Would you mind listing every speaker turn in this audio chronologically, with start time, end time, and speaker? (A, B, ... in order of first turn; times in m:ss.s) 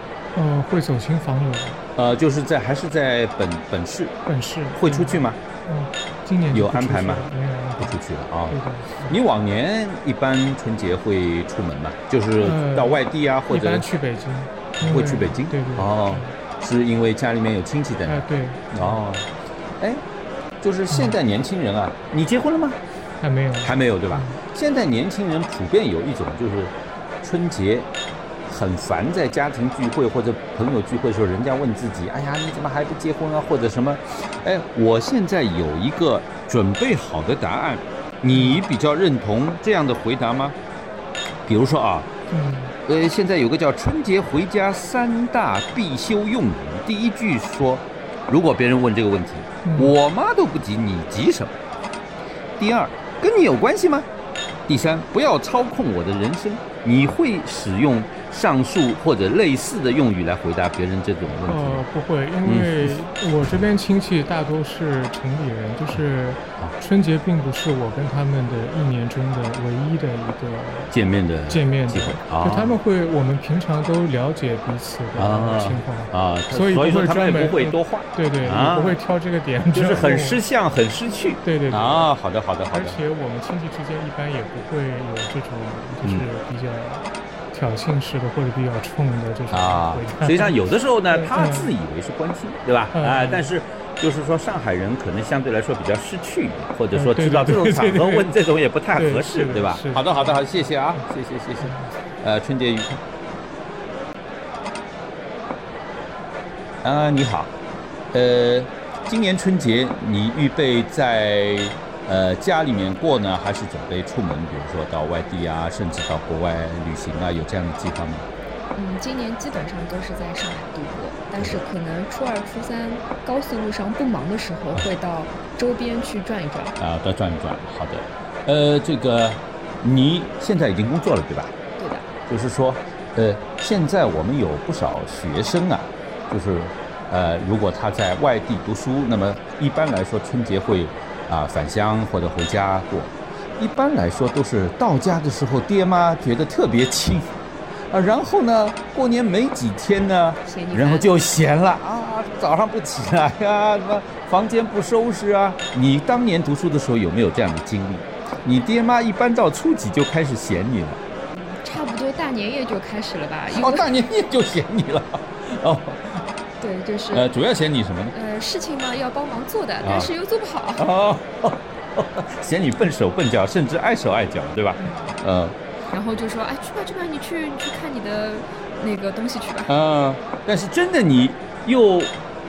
0:00.3-0:01.8 A
0:02.0-0:04.2 B
0:04.2-0:08.0 A
0:04.7-0:05.4 B
0:06.5-0:07.3 B
0:07.8-0:13.8 B
0:08.5-0:09.1 A
0:12.4-0:16.3 A
0:14.8-0:20.0 B
0:18.0-0:19.0 A
0:20.6-0:22.8 B
0:20.9-0:21.2 A
0:23.2-0:24.4 A
0:23.6-0:27.9 B
0:28.4-0:40.6 B
0:38.3-0:38.6 A
0:41.4-0:42.1 B
0:42.3-0:42.7 A
0:42.8-0:51.6 B
0:49.6-0:49.9 A
0:52.6-0:54.1 B
0:54.7-1:01.8 B
1:01.4-1:20.4 A
1:02.4-1:02.9 B
1:10.9-1:12.8 B
1:15.1-1:19.0 B
1:19.7-1:23.0 B
1:21.4-1:22.1 A
1:22.7-1:31.7 A
1:29.5-1:43.0 B
1:32.9-1:33.5 A
1:36.9-1:38.3 A
1:38.9-1:40.6 A
1:46.8-1:47.5 B
1:48.1-1:58.2 B
1:58.7-2:06.7 C
2:06.8-2:11.5 B
2:11.8-2:12.1 C
2:12.3-2:27.3 B
2:27.9-2:41.0 B
2:30.4-2:31.1 C
2:41.3-2:43.9 C
2:43.5-2:46.2 B
2:46.6-2:47.2 C
2:47.1-2:48.1 B
2:48.1-2:50.8 C
2:49.8-2:50.1 B
2:50.8-2:55.6 B
2:54.8-2:55.2 C
2:55.9-2:59.7 C
2:59.7-3:02.2 B